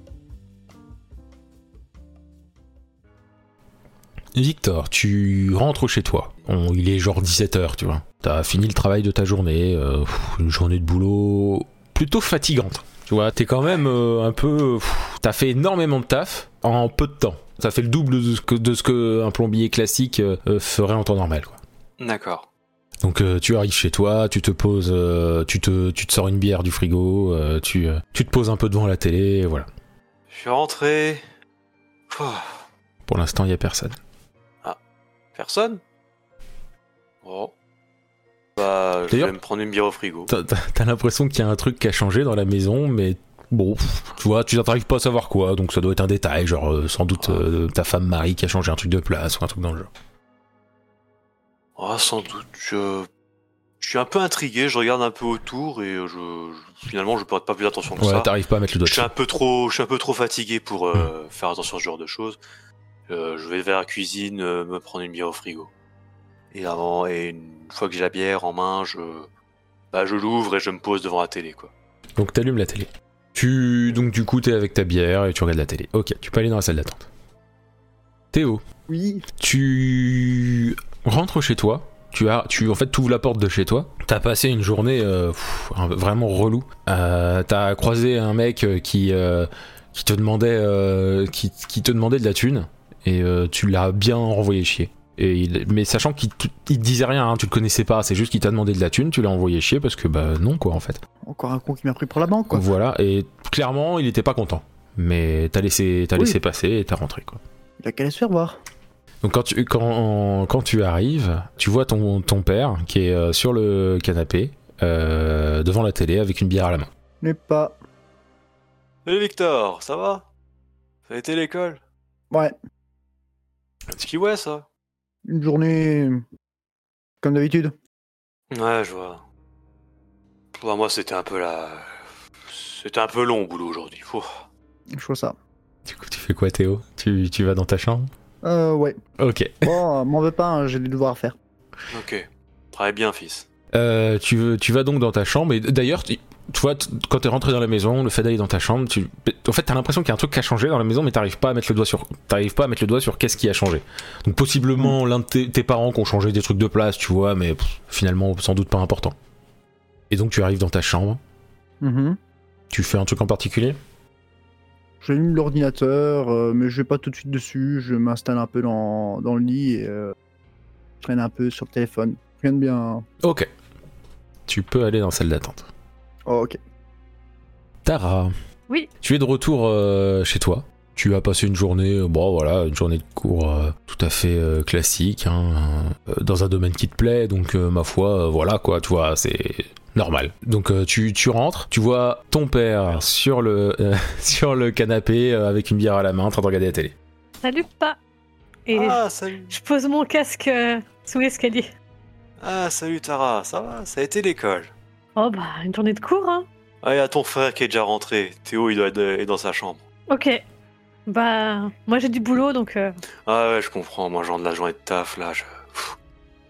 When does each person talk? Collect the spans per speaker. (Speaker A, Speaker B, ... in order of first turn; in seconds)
Speaker A: 4.3-21.6, 23.0-29.7, 33.1-34.0, 39.1-39.4, 40.3-49.9, 58.0-59.1, 72.2-77.1, 78.3-78.6, 79.4-101.0, 102.5-107.4, 109.2-116.9, 135.9-138.1, 139.2-139.8, 143.7-159.2, 160.1-161.2, 162.7-163.8, 173.2-173.5, 174.5-175.7, 177.8-178.3, 179.0-196.9
Speaker B: 22.0-22.5, 30.3-31.2, 32.1-32.6, 35.4-35.8, 37.2-37.5, 38.6-40.3, 47.2-47.5, 51.8-53.1, 53.8-58.3, 58.9-62.4, 63.1-65.7, 66.5-69.3, 69.9-71.7, 119.1-120.3, 121.1-121.8, 123.9-124.7, 128.5-129.2, 130.5-134.5, 141.9-143.5, 198.7-199.6, 202.4-204.7, 206.8-209.8, 213.3-216.0
Speaker C: 78.9-79.2, 101.2-102.7, 107.8-108.6, 117.2-117.8, 125.3-126.2, 127.2-127.8, 134.9-135.4, 138.4-139.0, 139.6-141.4, 161.8-162.2, 165.0-170.2, 171.0-173.1, 176.3-176.6
Speaker D: 197.4-198.0, 198.7-201.7, 205.2-206.5, 210.1-210.4, 211.1-213.0